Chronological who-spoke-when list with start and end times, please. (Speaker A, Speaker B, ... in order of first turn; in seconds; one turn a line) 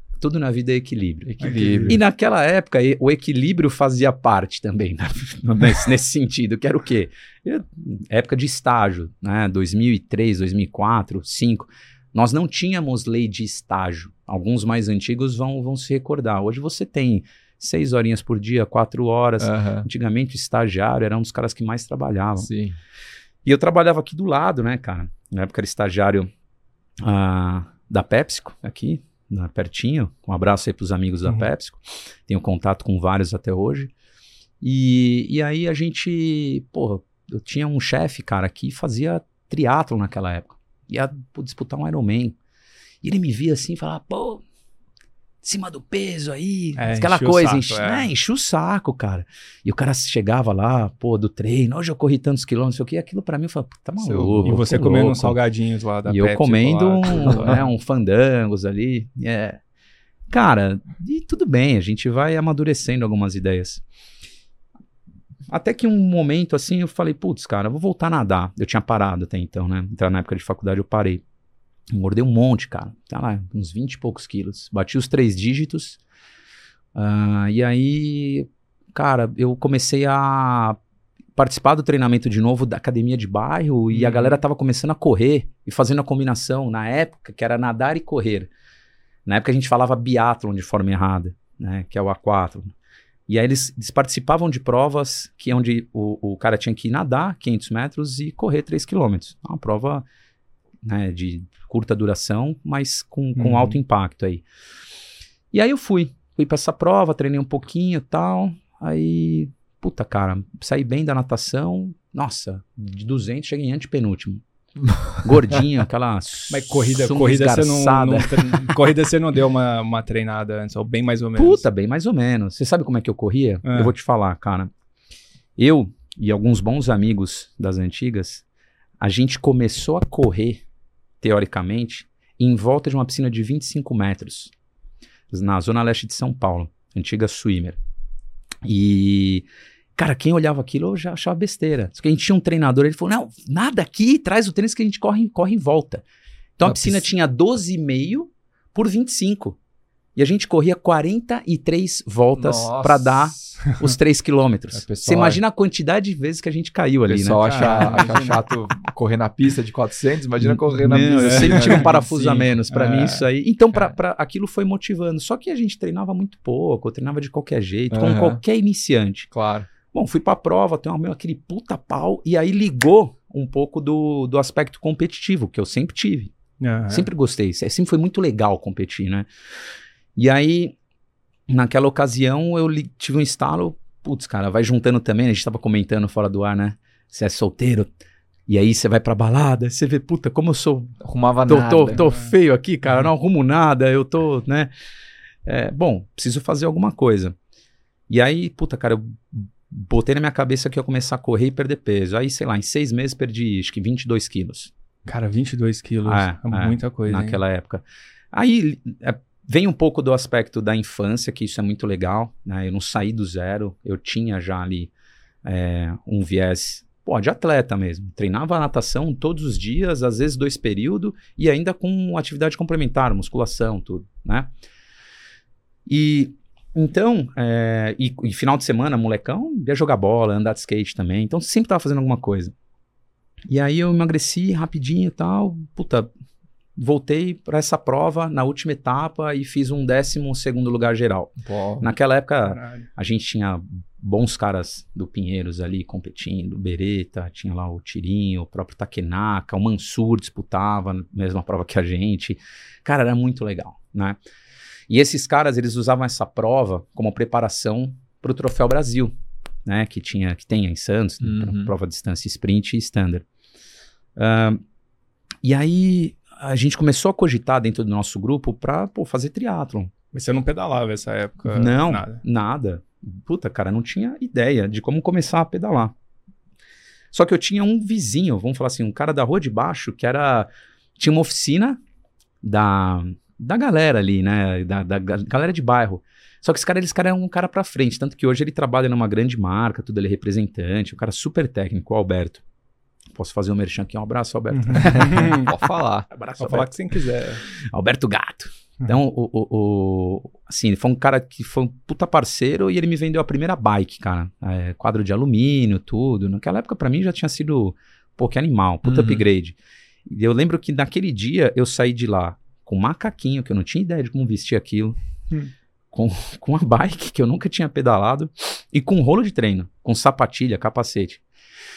Speaker A: 0.2-22.5
Speaker B: 1.3-2.0
Speaker C: 1.4-2.0
Speaker B: 19.4-19.9
Speaker B: 22.4-22.8
Speaker A: 23.4-26.3
Speaker A: 27.0-33.9
Speaker A: 34.6-42.4
Speaker A: 43.0-44.4
Speaker A: 45.4-55.4
Speaker C: 46.8-48.1
Speaker B: 54.0-54.6
Speaker C: 54.4-57.6
Speaker A: 56.1-59.6
Speaker A: 60.3-63.8
Speaker A: 65.5-71.2
Speaker A: 71.9-76.0
Speaker A: 77.0-80.8
Speaker A: 81.4-88.5
Speaker C: 83.9-84.4
Speaker A: 89.3-92.8
Speaker A: 93.3-100.1
Speaker A: 100.8-104.5
Speaker C: 103.3-103.8
Speaker A: 105.5-114.4
Speaker A: 115.2-118.6
Speaker C: 116.5-121.6
Speaker A: 121.4-124.7
Speaker C: 123.6-123.9
Speaker A: 125.6-128.4
Speaker A: 129.0-130.6
Speaker A: 131.2-134.5
Speaker A: 135.3-137.8
Speaker A: 138.7-146.1
Speaker A: 146.6-149.6
Speaker B: 146.7-147.0
Speaker A: 150.2-158.3
Speaker B: 152.3-153.6
Speaker B: 154.7-155.4
Speaker B: 157.1-162.5
Speaker C: 157.4-158.4
Speaker A: 160.5-169.3
Speaker C: 161.1-161.9
Speaker C: 162.7-163.2
Speaker B: 167.9-168.4
Speaker B: 169.3-169.7
Speaker A: 169.9-176.3
Speaker C: 176.6-177.1
Speaker A: 176.9-179.3
Speaker A: 180.2-180.8
Speaker A: 181.5-187.9
Speaker A: 188.5-190.9
Speaker B: 191.0-192.1
Speaker A: 191.5-194.7
Speaker C: 191.9-192.3
Speaker A: 195.4-197.4
Speaker A: 198.1-204.7
Speaker C: 205.1-207.4
Speaker A: 206.1-214.9
Speaker A: 215.4-224.5
Speaker A: 225.9-232.5
Speaker A: 233.5-236.1
Speaker A: 236.8-254.2
Speaker B: 241.4-241.9
Speaker C: 242.4-242.9
Speaker A: 254.9-259.1
Speaker A: 259.6-263.2
Speaker B: 261.2-261.7
Speaker A: 264.2-264.6
Speaker A: 265.4-269.9
Speaker C: 270.1-272.2
Speaker A: 271.5-275.9
Speaker A: 277.1-281.8
Speaker A: 282.4-292.4
Speaker A: 293.1-295.5
Speaker C: 294.5-295.5
Speaker B: 295.1-296.1
Speaker A: 296.1-296.9
Speaker C: 296.4-297.4
Speaker A: 297.6-315.0
Speaker B: 308.8-309.2
Speaker A: 315.9-321.2